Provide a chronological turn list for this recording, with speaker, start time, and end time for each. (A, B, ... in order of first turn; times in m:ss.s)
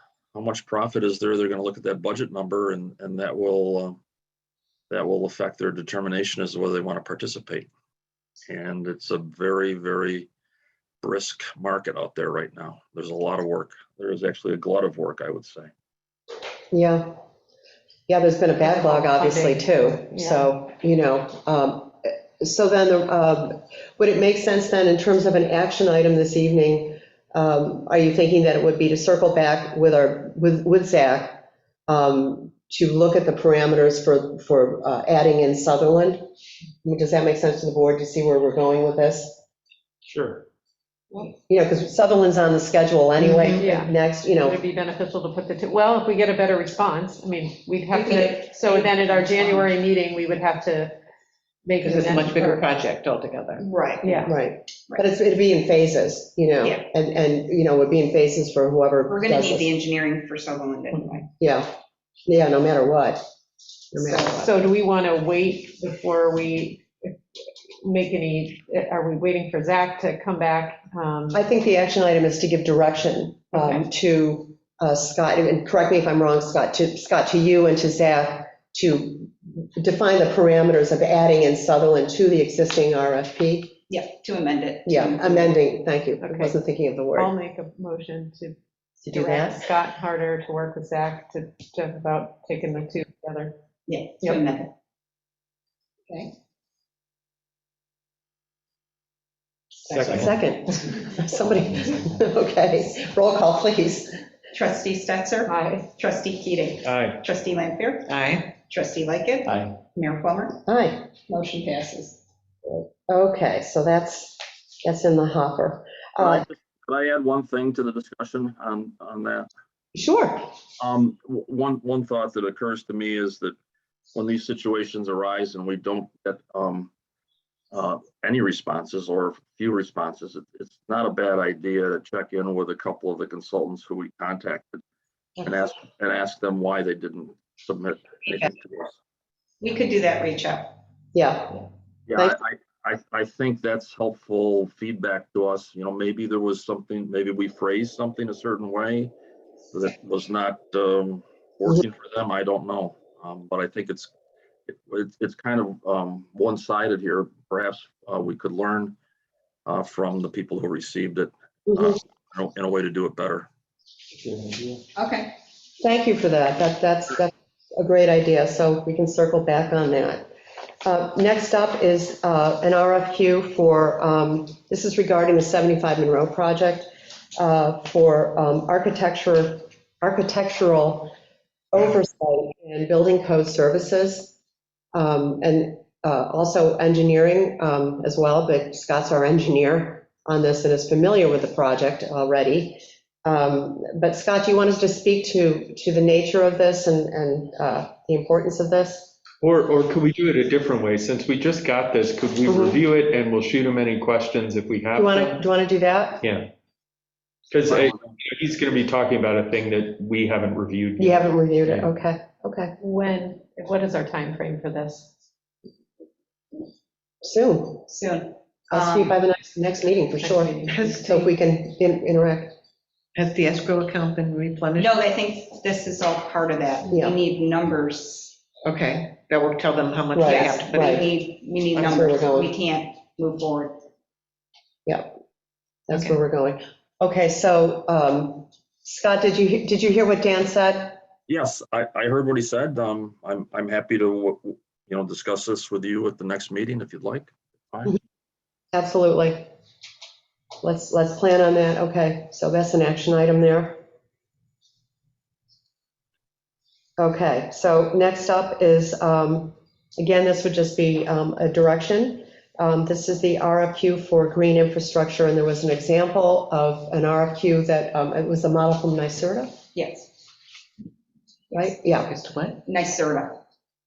0:00.3-0:04.0 A
0:04.9-0:07.7 A
0:08.5-0:10.3 A
0:11.0-0:15.7 A
0:16.7-0:17.2 B
0:18.1-0:36.3 B
0:18.6-0:20.5 C
0:36.8-0:39.4 B
0:40.0-0:40.4 D
0:41.5-0:44.6 B
0:43.2-0:43.6 E
0:43.6-0:51.0 C
0:47.9-0:49.7 E
0:51.6-0:52.6 C
0:51.8-0:53.6 F
0:53.6-0:54.2 E
0:54.0-0:54.3 C
0:54.2-0:59.7 B
0:59.1-1:01.3 E
1:01.4-1:01.7 B
1:02.3-1:03.2 B
1:03.9-1:04.3 B
1:04.0-1:04.5 E
1:04.3-1:07.2 C
1:07.8-1:11.4 C
1:11.3-1:23.8 B
1:13.5-1:13.8 C
1:23.9-1:25.6 E
1:24.8-1:27.3 B
1:26.2-1:26.6 C
1:27.1-1:33.6 C
1:29.0-1:29.7 B
1:33.9-1:34.7 E
1:39.9-1:44.1 B
1:39.9-1:40.3 D
1:44.5-1:50.6 E
1:45.4-1:45.9 C
1:46.8-1:47.2 D
1:48.1-1:48.5 F
1:50.7-1:51.1 B
1:51.3-1:52.2 E
1:52.6-1:56.4 B
1:56.2-1:59.5 A
1:59.9-2:00.4 B
2:00.8-2:03.6 A
2:04.1-2:06.9 A
2:07.7-2:14.8 A
2:15.4-2:18.9 A
2:19.6-2:20.8 E
2:21.1-2:21.6 B
2:22.1-2:29.1 A
2:29.7-2:34.1 A
2:34.7-2:39.0 A
2:39.6-2:43.5 A
2:41.7-2:41.9 B
2:45.0-2:45.3 E
2:45.8-2:50.3 B
2:50.8-3:01.1 B
3:01.7-3:04.3 B
3:04.9-3:19.1 B
3:19.4-3:25.4 D
3:22.5-3:22.8 B
3:25.0-3:26.2 B
3:26.2-3:26.5 D
3:27.5-3:31.9 D
3:27.7-3:28.0 A
3:31.0-3:32.7 B
3:32.8-3:35.1 C
3:37.2-3:37.9 B
3:37.9-3:39.1 E
3:38.7-3:42.5 B
3:40.2-3:41.3 C
3:40.7-3:41.3 F
3:43.1-3:45.0 F
3:44.7-3:48.3 E
3:48.6-3:51.1 F
3:50.2-3:51.0 B
3:50.2-3:53.8 E
3:51.7-3:52.5 B
3:54.8-3:55.1 B
3:55.9-4:01.0 B
4:01.3-4:08.0 A
4:08.7-4:09.5 B
4:10.6-4:13.8 B
4:17.0-4:29.6 B
4:29.7-4:30.1 E
4:31.5-4:32.1 B
4:32.1-4:32.6 F
4:32.6-4:33.4 E